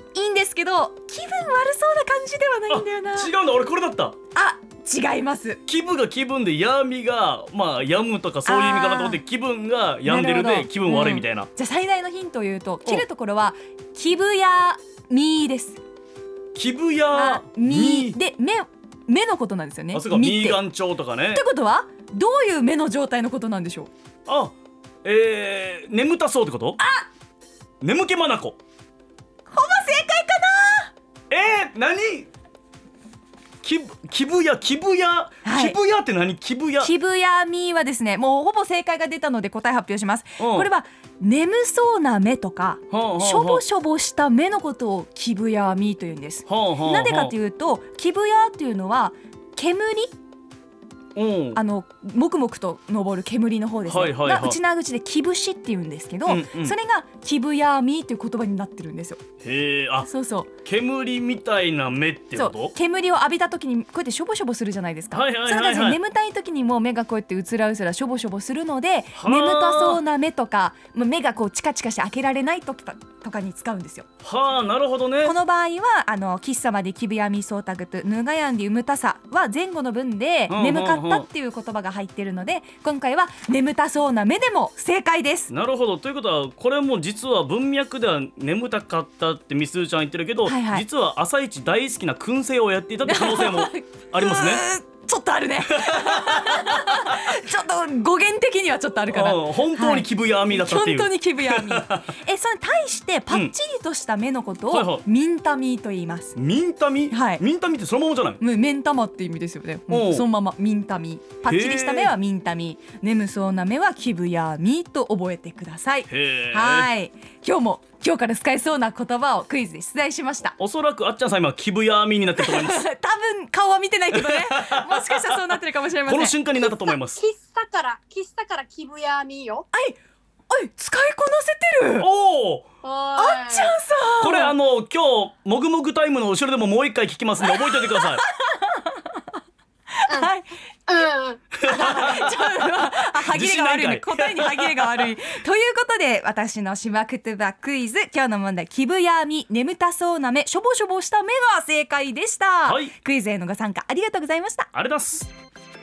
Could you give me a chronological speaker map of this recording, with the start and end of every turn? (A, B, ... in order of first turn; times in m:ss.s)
0:00.1-0:03.3 A
0:02.7-0:04.2 B
0:04.3-0:05.6 A
0:05.7-0:11.5 B
0:08.5-0:09.2 A
0:10.0-0:15.8 A
0:16.6-0:18.2 B
0:17.1-0:20.6 A
0:19.9-0:21.4 B
0:21.3-0:23.9 A
0:24.3-0:24.5 B
0:25.0-0:26.8 B
0:26.8-0:27.1 A
0:27.8-0:28.6 B
0:29.5-0:30.9 A
0:31.3-0:32.3 B
0:33.6-0:36.9 B
0:35.4-0:35.8 A
0:36.8-0:50.1 A
0:40.4-0:40.7 B
0:42.9-0:43.6 B
0:46.5-0:47.3 B
0:51.2-0:51.6 B
0:51.6-0:59.2 A
0:53.9-0:54.6 B
0:56.3-0:56.8 B
0:59.4-1:00.1 B
1:00.0-1:00.5 A
1:00.6-1:02.7 B
1:02.4-1:14.1 A
1:05.1-1:06.0 B
1:09.2-1:10.0 B
1:14.2-1:15.4 B
1:15.2-1:25.5 A
1:20.5-1:21.3 B
1:25.5-1:34.7 B
1:30.4-1:30.8 A
1:33.1-1:46.4 A
1:35.7-1:36.8 B
1:39.1-1:42.1 B
1:44.7-1:45.0 B
1:46.4-1:48.4 B
1:47.1-1:47.4 A
1:48.4-2:00.6 A
1:49.9-1:50.2 B
1:51.4-1:52.2 B
1:56.1-1:56.9 B
2:00.6-2:02.8 B
2:02.4-2:06.4 A
2:04.2-2:07.2 B
2:06.6-2:09.7 C
2:09.7-2:10.0 A
2:10.5-2:12.1 A
2:12.0-2:12.7 B
2:12.8-2:13.8 C
2:13.2-2:14.5 A
2:14.2-2:18.2 B
2:17.6-2:19.2 A
2:20.0-2:20.5 A
2:20.9-2:22.1 C
2:21.6-2:25.1 B
2:21.6-2:34.7 A
2:32.6-2:32.9 B
2:34.7-2:35.3 B